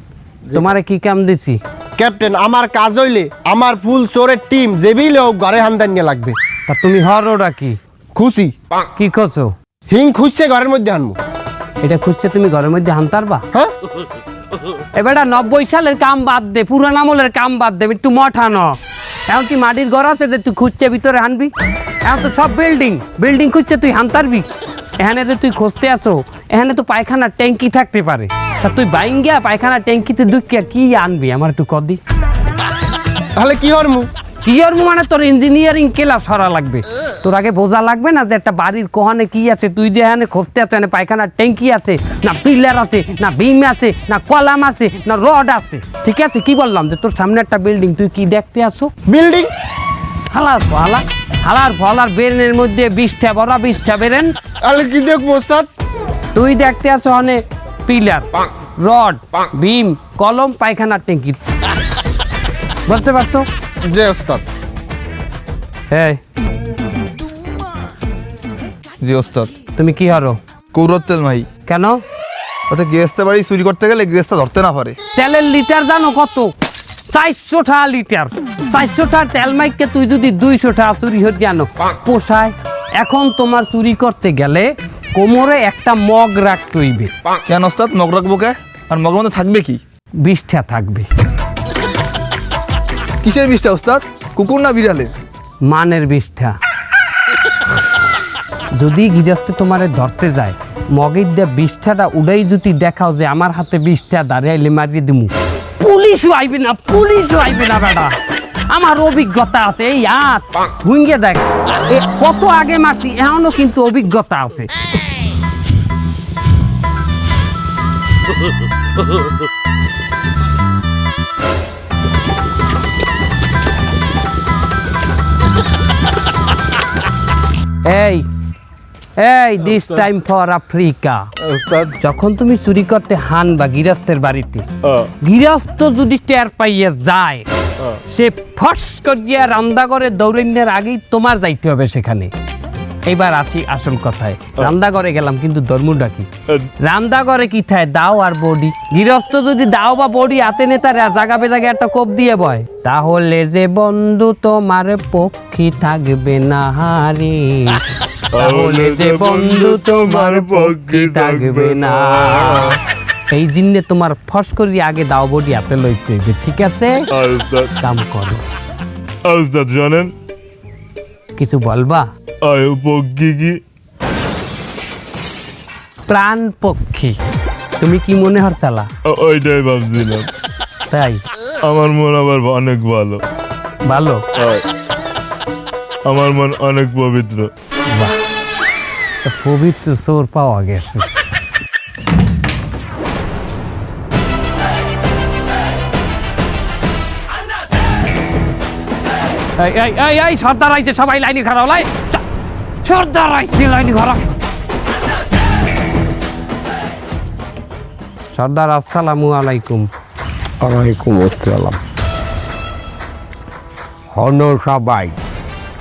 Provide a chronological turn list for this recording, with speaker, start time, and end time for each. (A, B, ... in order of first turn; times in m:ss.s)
0:00.5-0:01.6 A
0:02.0-0:06.4 B
0:06.7-0:07.8 A
0:08.2-0:08.5 B
0:09.0-0:09.5 A
0:09.9-0:11.2 B
0:11.8-0:13.4 A
0:15.0-0:18.8 A
0:19.3-0:21.5 A
0:22.0-0:24.5 A
0:25.0-0:32.0 A
0:33.4-0:34.1 B
0:34.4-0:48.9 A
0:49.1-0:49.5 B
0:50.3-0:54.3 A
0:54.7-0:55.7 B
0:56.3-1:01.4 A
1:02.9-1:03.5 A
1:03.9-1:04.4 B
1:05.9-1:06.2 A
1:09.0-1:09.5 C
1:09.7-1:10.4 A
1:10.7-1:11.4 C
1:11.6-1:12.0 A
1:12.7-1:14.9 C
1:15.1-1:16.5 A
1:17.1-1:27.1 A
1:27.5-1:29.8 C
1:30.2-1:31.1 A
1:33.2-1:35.1 C
1:35.6-1:36.6 A
1:38.7-1:48.1 A
1:48.7-1:54.7 A
2:07.8-2:08.2 A
2:09.2-2:11.3 A
2:11.5-2:11.9 D
2:12.0-2:14.6 A
2:15.2-2:17.4 A
2:18.1-2:22.3 A
2:23.1-2:26.3 A
2:26.8-2:37.8 A
2:38.4-2:42.8 D
2:38.4-2:42.7 A
2:43.3-2:47.1 A
2:47.1-2:47.7 D
2:47.8-2:48.4 A
2:49.3-2:50.1 D
2:51.4-2:52.1 A
2:52.5-2:53.6 D
2:56.1-2:57.2 A
2:57.8-2:58.9 A
2:59.1-3:00.3 D
3:00.9-3:01.2 A
3:01.7-3:03.2 D
3:03.9-3:04.2 A
3:04.4-3:04.6 D
3:06.1-3:07.5 D
3:09.2-3:11.1 A
3:19.6-3:22.2 A
3:22.8-3:24.3 A
3:28.3-3:29.9 A
3:30.6-3:31.8 E
3:34.1-3:35.2 E